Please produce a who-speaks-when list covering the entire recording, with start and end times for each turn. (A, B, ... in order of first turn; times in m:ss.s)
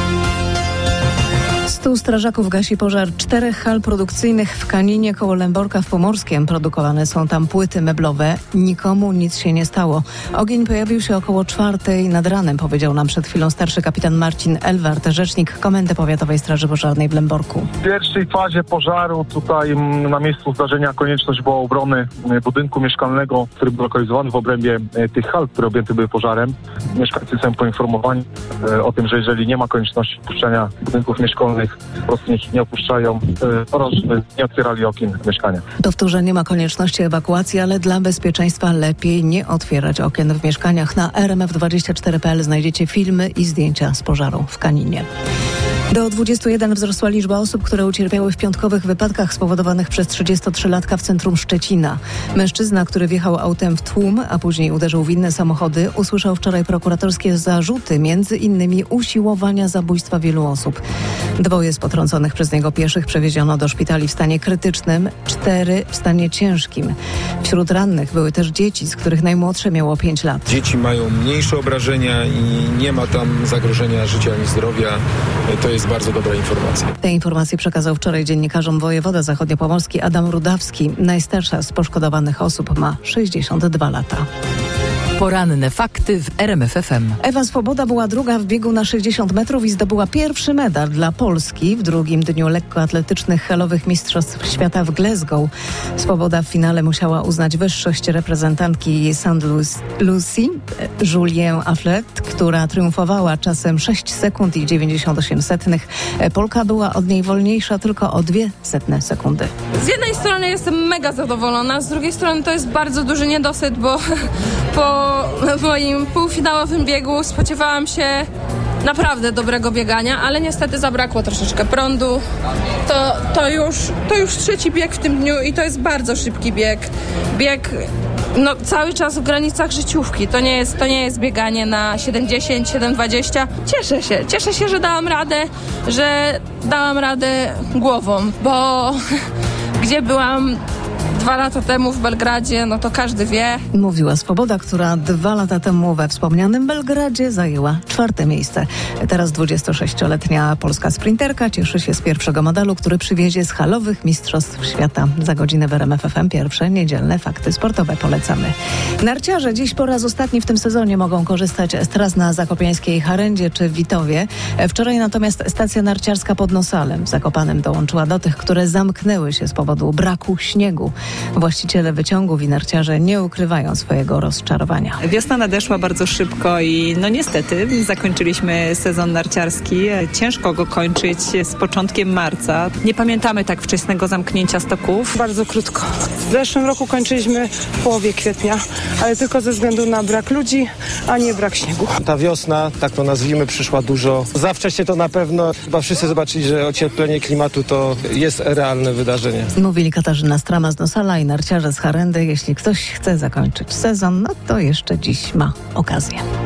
0:01.6-0:17.7 A
0:17.8-0:35.6 B
0:35.8-0:45.0 A
0:45.9-1:00.8 A
1:01.4-1:10.4 A
1:10.5-1:16.9 C
1:17.0-1:24.2 A
1:25.2-1:27.2 D
1:27.2-1:49.5 A
1:49.8-1:54.0 E
1:54.7-1:58.3 E
1:58.8-2:02.2 E
2:02.8-2:19.0 E
2:19.8-2:20.6 E
2:21.1-2:23.6 E
2:23.7-2:55.0 A
2:55.0-3:05.1 F
3:05.1-3:11.9 G
3:12.0-3:19.5 H
3:19.6-3:26.2 A